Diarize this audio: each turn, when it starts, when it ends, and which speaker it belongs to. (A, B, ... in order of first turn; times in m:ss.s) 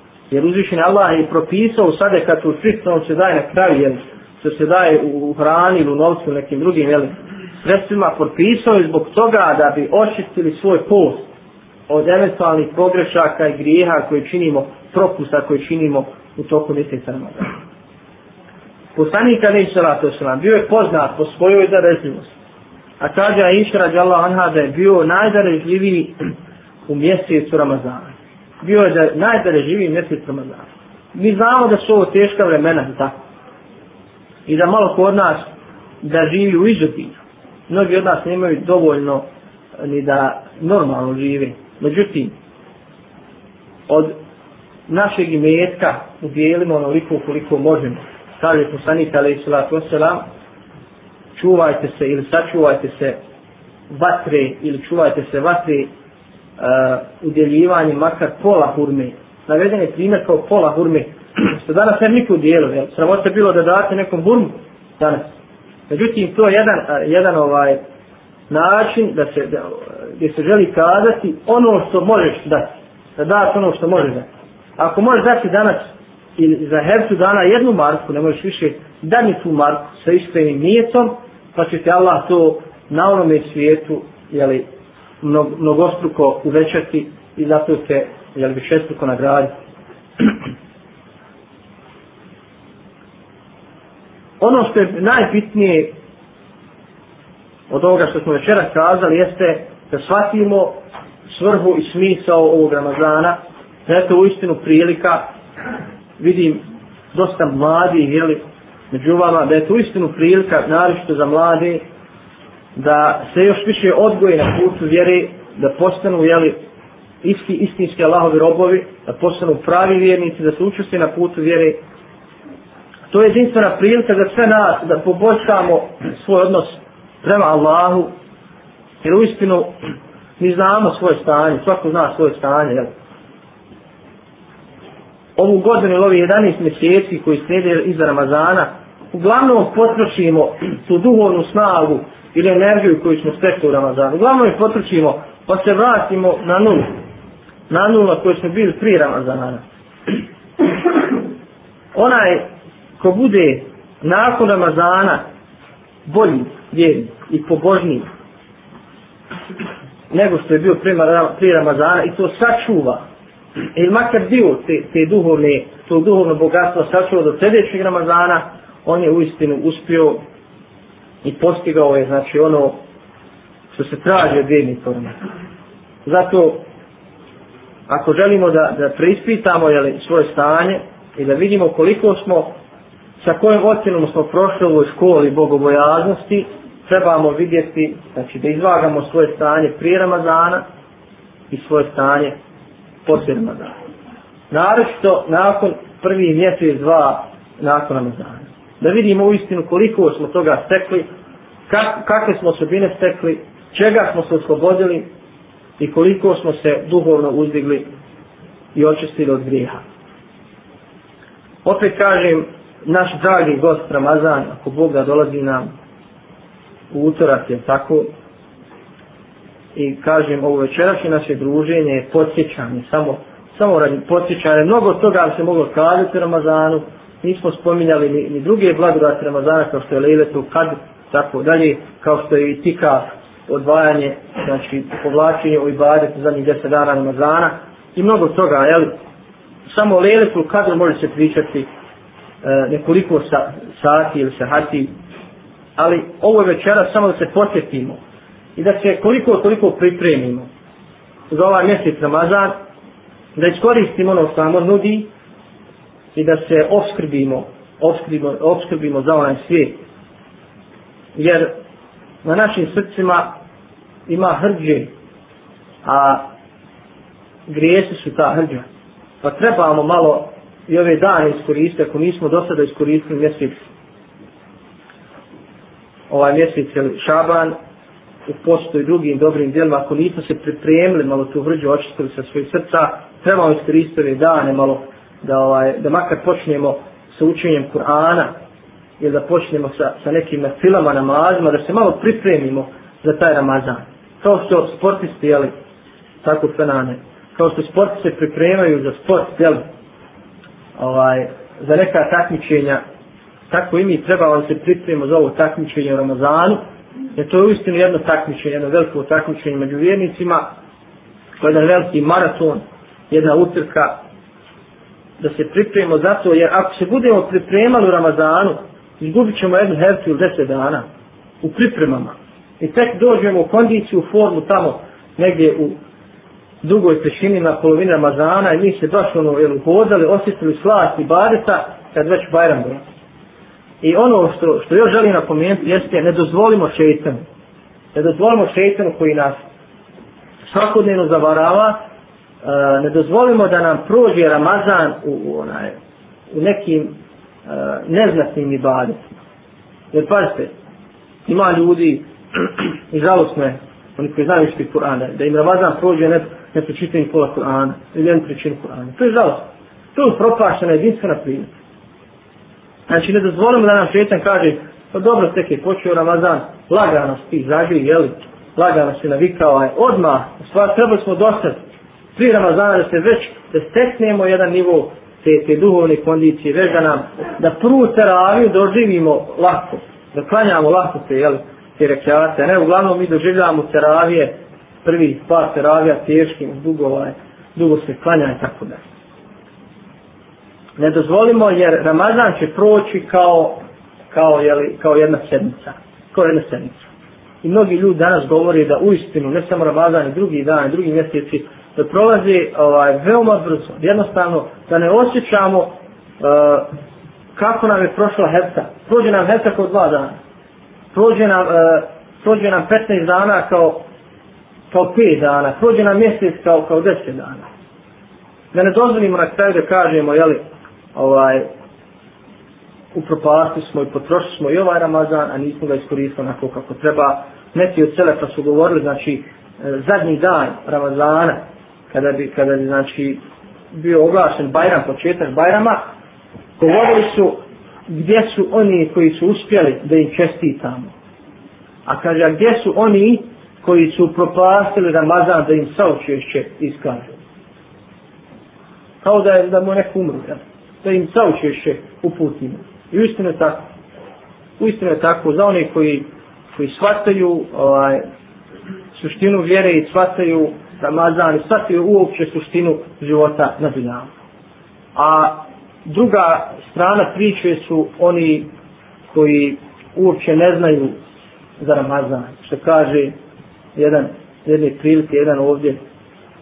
0:00.3-0:11.3 A
0:11.9-0:17.5 A
0:18.9-0:22.3 A
0:23.0-0:26.2 A
0:26.9-0:33.1 A
0:34.5-0:39.2 A
0:39.8-0:42.3 A
0:43.9-0:44.2 A
0:44.9-0:50.2 A
0:51.3-0:53.2 A
0:53.9-0:55.9 A
0:56.6-1:05.3 A
1:05.9-1:07.8 A
1:08.5-1:14.3 A
1:14.8-1:24.7 A
1:25.2-1:29.5 A
1:34.4-1:35.9 A
1:37.7-1:45.2 A
1:46.2-1:51.8 A
1:52.8-1:56.6 A
1:57.2-2:01.8 A
2:03.1-2:08.1 A
2:09.0-2:09.7 A
2:10.4-2:12.9 A
2:15.4-2:26.9 A
2:27.7-2:29.6 A
2:31.9-2:32.4 A
2:33.0-2:35.2 A
2:36.0-2:38.1 A
2:40.1-2:43.0 A
2:43.7-2:50.2 A
2:51.2-2:52.8 A
2:53.7-2:55.1 A
2:56.0-2:56.6 A
2:57.9-3:02.5 A
3:03.2-3:10.6 A
3:11.5-3:12.3 A
3:13.0-3:13.7 A
3:14.5-3:21.1 A
3:21.7-3:25.1 A
3:25.8-3:27.9 A
3:28.7-3:29.8 A
3:31.6-3:35.7 A
3:36.9-3:38.1 A
3:39.7-3:58.9 A
3:59.7-4:01.7 A
4:02.4-4:04.9 A
4:05.8-4:08.0 A
4:08.6-4:10.5 A
4:11.3-4:12.5 A
4:13.3-4:15.1 A
4:16.1-4:19.8 A
4:21.1-4:21.6 A
4:22.2-4:23.3 A
4:24.1-4:24.9 A
4:25.8-4:26.2 A
4:27.5-4:28.6 A
4:29.2-4:33.7 A
4:36.1-4:37.5 A
4:38.2-4:48.3 A
4:49.0-4:55.5 A
4:56.2-4:59.6 A
5:00.8-5:02.8 A
5:03.5-5:06.6 A
5:07.2-5:10.4 A
5:11.4-5:14.0 A
5:15.2-5:20.8 A
5:21.4-5:25.8 A
5:26.6-5:32.8 A
5:33.8-5:37.2 A
5:37.9-5:39.4 A
5:40.4-5:41.8 A
5:42.4-5:45.8 A
5:46.3-5:46.9 A
5:47.5-5:49.0 A
5:49.9-5:50.5 A
5:51.2-6:01.5 A
6:02.9-6:11.6 A
6:12.2-6:28.8 A
6:30.8-6:36.8 A
6:37.4-6:46.7 A
6:47.4-6:50.2 A
6:50.9-6:53.8 A
6:54.7-6:57.4 A
6:58.5-7:00.4 A
7:00.9-7:01.5 A
7:02.9-7:13.2 A
7:13.7-7:15.8 A
7:16.6-7:20.9 A
7:21.8-7:27.1 A
7:29.0-7:33.6 A
7:34.6-7:38.0 A
7:38.9-7:44.1 A
7:44.9-7:48.5 A
7:49.1-7:51.0 A
7:51.6-7:53.1 A
7:53.8-7:55.8 A